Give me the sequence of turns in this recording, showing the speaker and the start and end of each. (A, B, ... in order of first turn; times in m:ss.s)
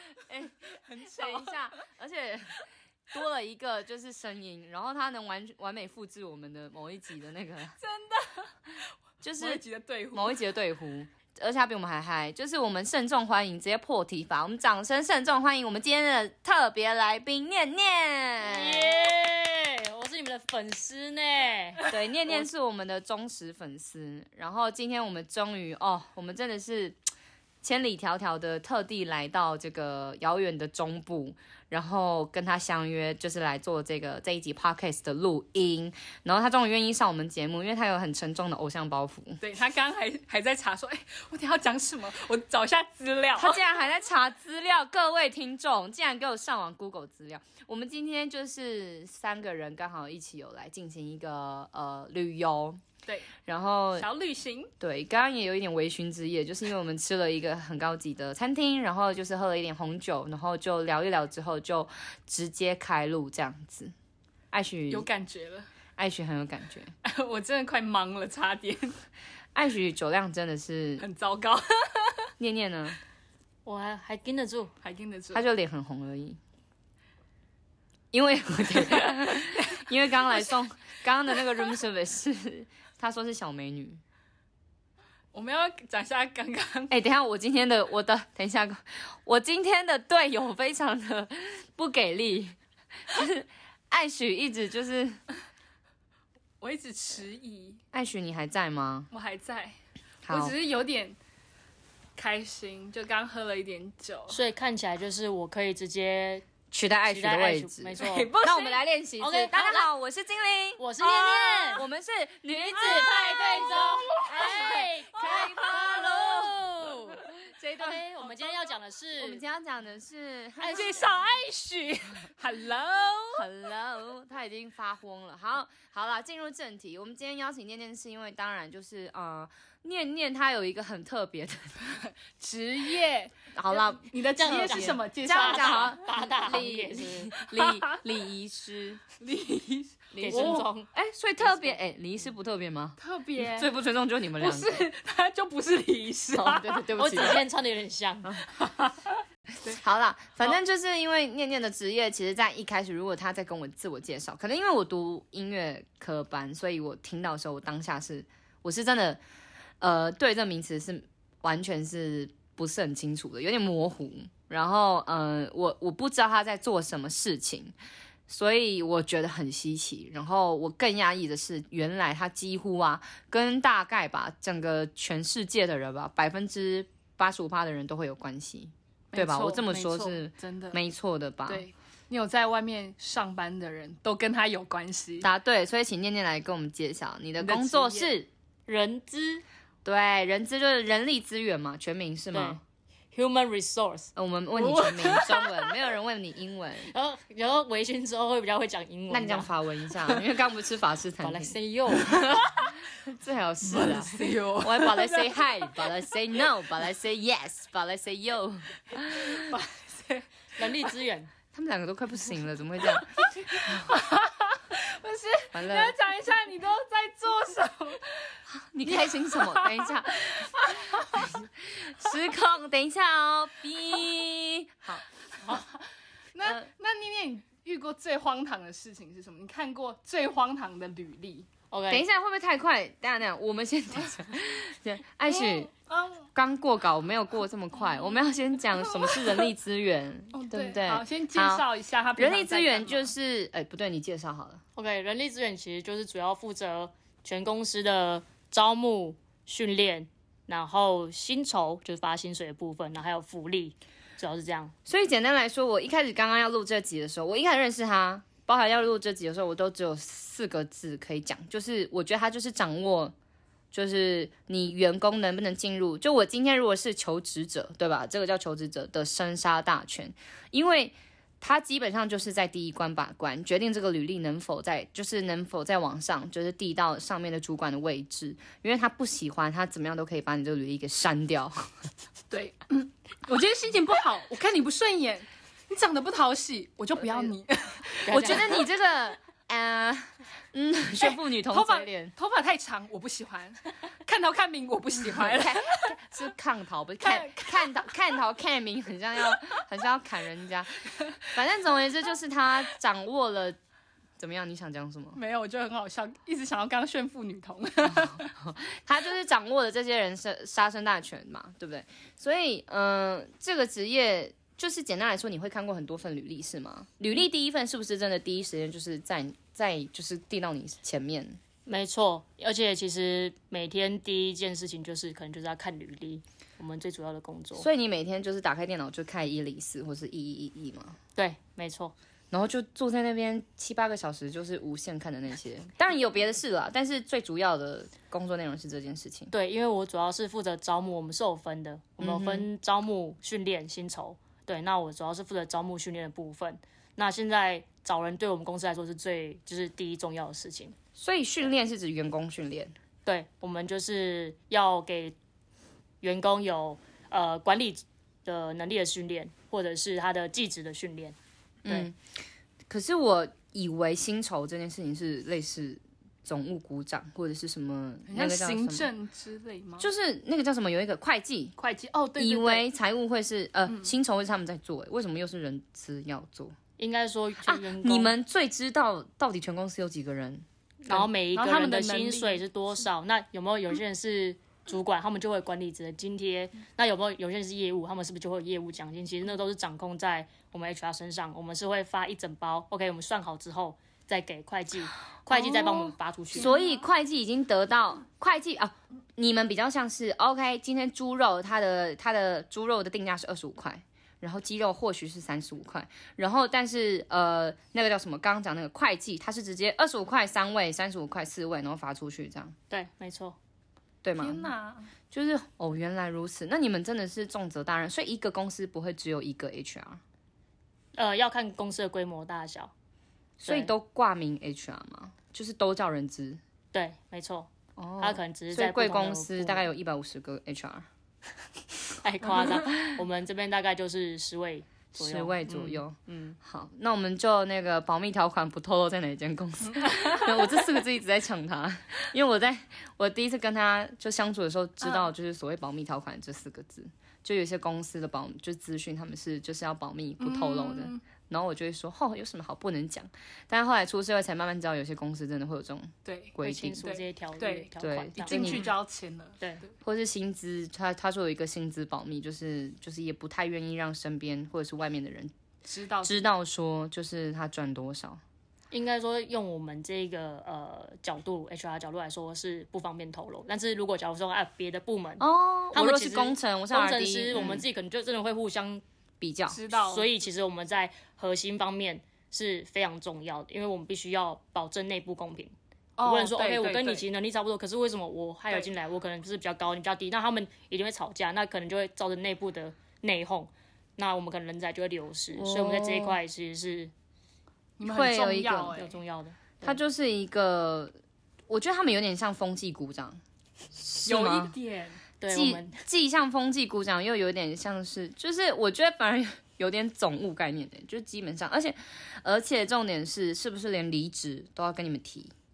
0:00.2-0:07.8 A
0:00.9-0:01.6 B
0:07.8-0:08.8 B
0:09.2-0:18.9 A
0:09.4-0:10.4 B
0:18.4-0:22.5 C
0:21.9-0:27.0 A
0:27.6-0:39.4 A
0:39.4-0:43.6 B
0:43.4-0:52.8 A
0:53.1-0:53.3 B
0:53.5-0:54.1 A
0:54.0-0:54.7 B
0:54.8-1:03.9 A
1:04.5-1:05.1 A
1:04.9-1:05.7 B
1:06.0-1:06.9 A
1:07.0-1:09.0 B
1:09.6-1:11.1 A
1:11.0-1:12.3 B
1:12.4-1:13.0 A
1:13.6-1:14.7 C
1:14.8-1:15.5 B
1:15.3-1:16.4 A
1:18.1-1:24.0 A
1:19.6-1:20.6 B
1:25.3-1:26.9 B
1:26.9-1:32.6 A
1:33.1-1:35.2 A
1:36.6-1:37.8 B
1:37.9-1:39.1 A
1:39.1-1:39.8 B
1:40.3-1:40.6 A
1:40.3-1:41.2 B
1:42.2-1:44.4 B
1:44.3-1:46.4 C
1:46.7-1:56.5 A
1:47.1-1:48.4 C
1:48.0-1:48.9 B
1:49.2-1:49.9 C
1:50.8-1:51.8 C
1:52.7-1:59.4 C
1:52.8-1:56.2 B
1:57.5-1:58.0 A
1:59.2-2:01.1 A
2:00.6-2:00.9 C
2:00.6-2:03.5 B
2:03.4-2:11.8 A
2:11.9-2:16.0 B
2:13.5-2:19.0 A
2:14.4-2:17.3 C
2:17.5-2:18.0 B
2:19.2-2:20.7 B
2:20.1-2:24.9 A
2:20.2-2:20.9 C
2:21.4-2:21.8 C
2:23.0-2:23.7 B
2:24.4-2:27.4 B
2:26.3-2:27.4 A
2:27.0-2:28.4 C
2:28.6-2:29.1 B
2:29.7-2:39.2 A
2:39.8-2:47.8 A
2:48.3-3:01.7 A
2:59.1-3:00.8 B
3:01.5-3:05.3 B
3:05.2-3:08.3 A
3:07.4-3:08.1 B
3:08.7-3:09.4 C
3:09.8-3:12.6 A
3:12.3-3:12.6 C
3:13.1-3:14.1 C
3:14.2-3:16.9 A
3:14.6-3:15.8 B
3:16.9-3:19.5 C
3:19.1-3:29.5 A
3:21.2-3:22.2 C
3:22.2-3:22.8 B
3:23.6-3:25.9 B
3:29.0-3:30.3 B
3:30.6-3:31.3 C
3:31.5-3:33.9 A
3:33.2-3:41.3 B
3:35.5-3:36.0 A
3:38.5-3:45.6 A
3:45.4-3:51.5 B
3:51.7-3:52.1 C
3:51.9-3:55.7 A
3:55.3-3:56.3 B
3:56.4-4:01.6 A
3:58.9-3:59.5 B
4:00.3-4:03.1 B
4:02.2-4:04.6 A
4:04.8-4:14.7 C
4:14.9-4:23.1 A
4:23.7-4:41.7 A
4:42.3-4:48.6 B
4:47.0-4:47.3 A
4:48.0-4:48.6 C
4:48.1-4:52.1 A
4:51.0-4:55.9 B
4:55.0-5:03.6 A
4:57.0-4:57.9 B
5:04.2-5:05.2 A
5:05.2-5:08.3 B
5:08.0-5:21.4 A
5:21.7-5:27.7 C
5:27.6-5:31.0 A
5:31.2-5:31.9 C
5:32.3-5:39.3 A
5:39.3-5:50.8 C
5:42.0-5:42.5 A
5:51.0-5:52.7 A
5:53.1-5:55.2 C
5:56.0-6:01.2 C
6:01.6-6:02.0 A
6:02.7-6:08.9 A
6:08.1-6:09.9 B
6:09.8-6:11.6 A
6:11.6-6:12.7 B
6:12.2-6:16.5 A
6:16.8-6:18.1 C
6:17.5-6:21.1 A
6:20.8-6:36.5 C
6:21.3-6:22.4 B
6:35.3-6:52.6 A
6:36.4-6:36.8 B
6:52.7-6:53.4 C
6:54.0-6:54.5 A
6:54.2-6:54.9 B
6:55.1-7:00.0 A
7:01.0-7:02.7 C
7:03.4-7:03.7 C
7:03.4-7:06.4 A
7:06.7-7:07.5 C
7:07.8-7:10.9 A
7:08.0-7:09.7 C
7:12.0-7:16.4 C
7:12.2-7:12.8 A
7:15.0-7:36.8 A
7:20.0-7:20.3 B
7:30.2-7:31.0 B
7:36.0-7:39.4 B
7:36.4-7:38.7 C
7:37.8-7:38.7 A
7:39.8-7:45.3 A
7:45.7-7:46.3 B
7:46.0-7:48.2 A
7:48.7-7:58.8 C
7:55.2-7:57.7 A
7:59.2-7:59.6 A
7:59.5-8:00.1 B
7:59.8-8:16.9 C
8:06.0-8:07.1 B
8:15.3-8:16.2 A
8:17.8-8:19.0 B
8:17.8-8:18.8 A
8:18.7-8:19.8 C
8:19.6-8:21.0 A
8:21.5-8:23.2 A
8:23.7-8:24.5 A
8:24.0-8:25.0 B
8:25.2-8:25.8 C
8:25.3-8:35.3 A